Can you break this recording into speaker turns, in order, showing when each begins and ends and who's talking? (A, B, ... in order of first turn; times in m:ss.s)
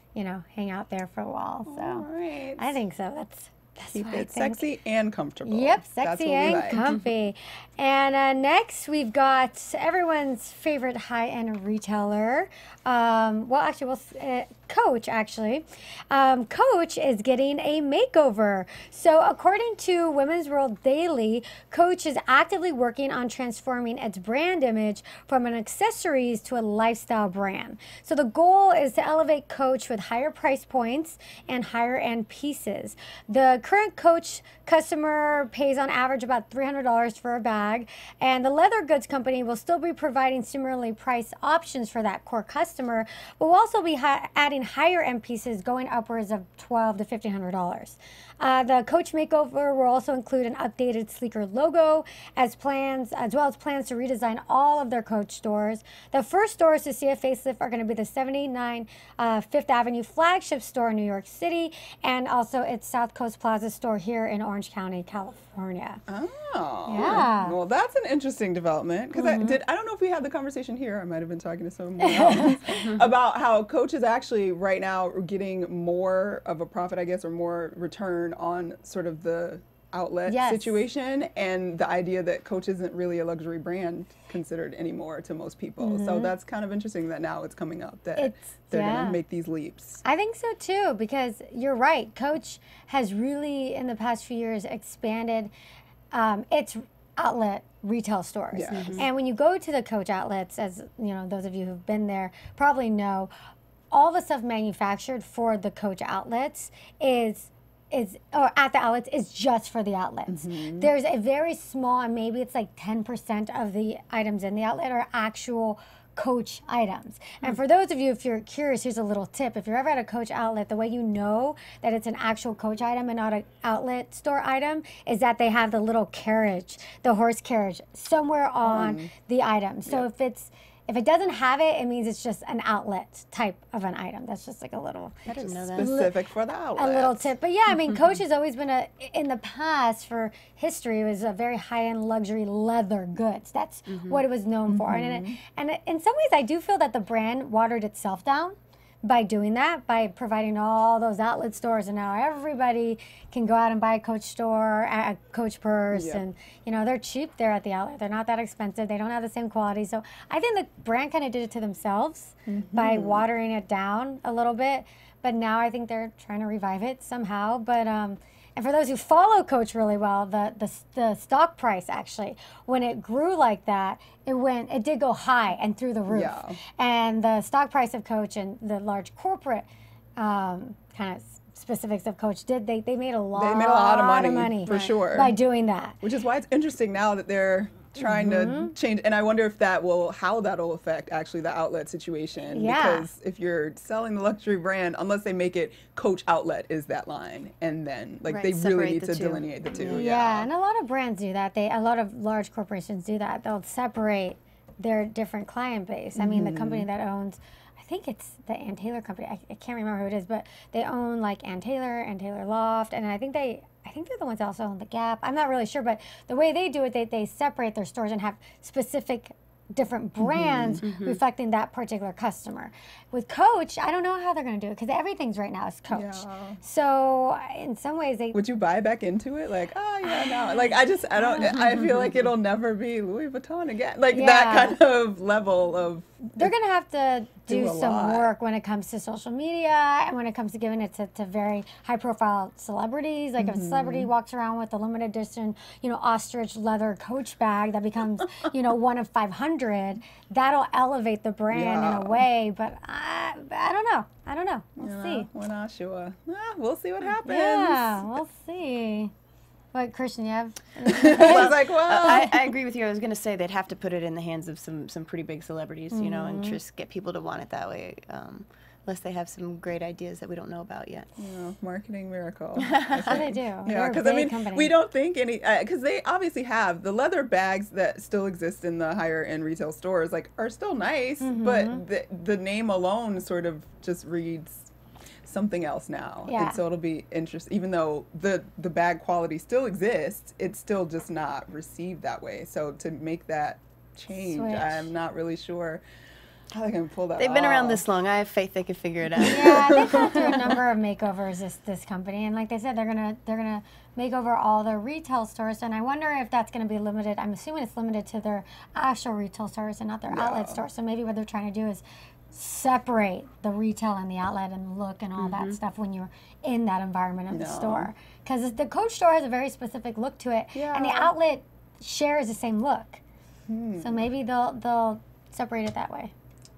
0:00.1-0:02.1 A
0:01.6-0:02.7 B
0:02.6-0:04.6 A
0:03.9-0:06.9 B
0:05.4-1:06.0 A
1:06.1-1:30.0 B
1:06.9-1:07.5 A
1:09.1-1:09.6 A
1:12.0-1:12.6 A
1:20.3-1:20.8 A
1:25.8-1:26.3 A
1:28.2-1:29.2 A
1:30.0-1:35.5 A
1:36.1-1:43.3 A
1:38.5-1:39.0 B
1:38.7-1:39.1 C
1:43.9-2:16.1 A
1:50.3-1:50.9 B
2:08.6-2:09.1 B
2:15.3-2:17.3 B
2:15.4-2:15.9 C
2:16.8-3:06.0 A
2:23.9-2:24.2 C
2:24.7-2:25.4 B
2:35.9-2:36.2 B
2:42.5-2:43.3 B
2:56.1-2:56.6 B
3:03.4-3:05.3 B
3:06.0-3:20.5 B
3:08.0-3:08.7 A
3:12.5-3:13.1 A
3:18.2-3:20.0 C
3:19.9-3:48.4 A
3:26.2-3:26.9 B
3:40.3-3:41.2 C
3:45.9-3:46.6 B
3:48.3-3:56.5 B
3:50.0-3:51.7 A
3:54.1-3:54.8 A
3:56.3-4:15.3 A
3:57.4-3:58.3 B
4:03.4-4:04.1 B
4:11.5-4:12.2 B
4:14.8-4:18.0 B
4:17.2-4:19.1 A
4:19.7-4:22.2 A
4:20.8-4:22.5 B
4:21.2-4:31.1 C
4:25.9-4:26.6 A
4:31.2-4:44.7 B
4:32.6-4:33.2 C
4:33.1-4:34.7 A
4:41.2-4:41.8 A
4:45.2-4:55.8 B
4:46.3-4:46.6 A
4:54.1-4:54.9 A
4:56.5-4:57.8 B
4:57.2-5:00.2 C
4:59.2-5:00.6 B
4:59.2-5:23.0 A
5:10.1-5:10.6 B
5:15.2-5:15.6 C
5:17.3-5:17.9 B
5:20.5-5:21.1 B
5:23.5-5:24.0 B
5:23.8-5:26.1 A